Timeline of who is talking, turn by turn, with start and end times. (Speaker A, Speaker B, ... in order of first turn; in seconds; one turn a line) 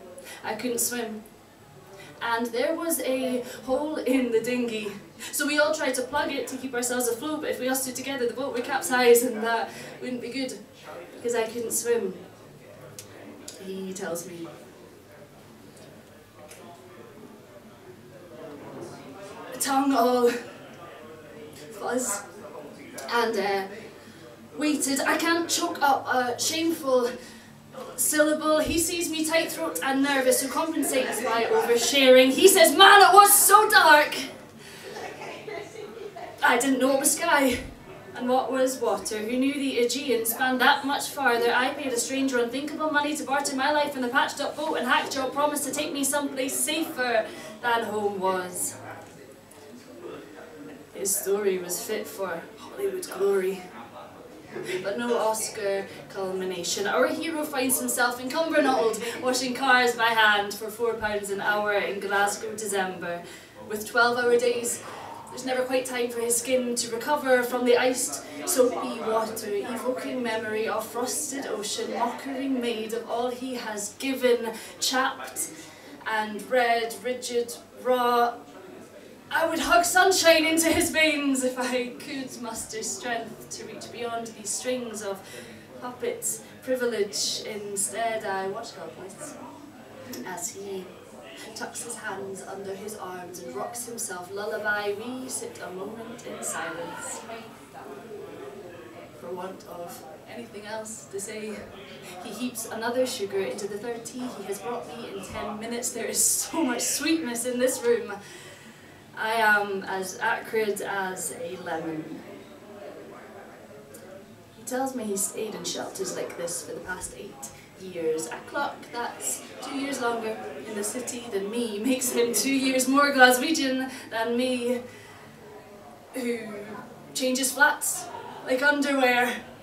Speaker A: 0.4-1.2
Speaker A: 2.2-12.2
Speaker A: 13.6-14.5
Speaker A: 19.5-20.4
Speaker A: 21.7-22.2
Speaker A: 23.1-23.7
Speaker A: 24.5-27.1
Speaker A: 27.8-34.3
Speaker A: 36.4-37.6
Speaker A: 38.1-48.8
Speaker A: 50.9-53.6
Speaker A: 54.8-75.5
Speaker A: 76.0-78.4
Speaker A: 79.3-85.2
Speaker A: 85.8-89.4
Speaker A: 90.2-90.9
Speaker A: 91.5-97.2
Speaker A: 99.1-101.6
Speaker A: 102.2-108.2
Speaker A: 109.1-112.2
Speaker A: 114.5-124.8
Speaker A: 126.1-129.4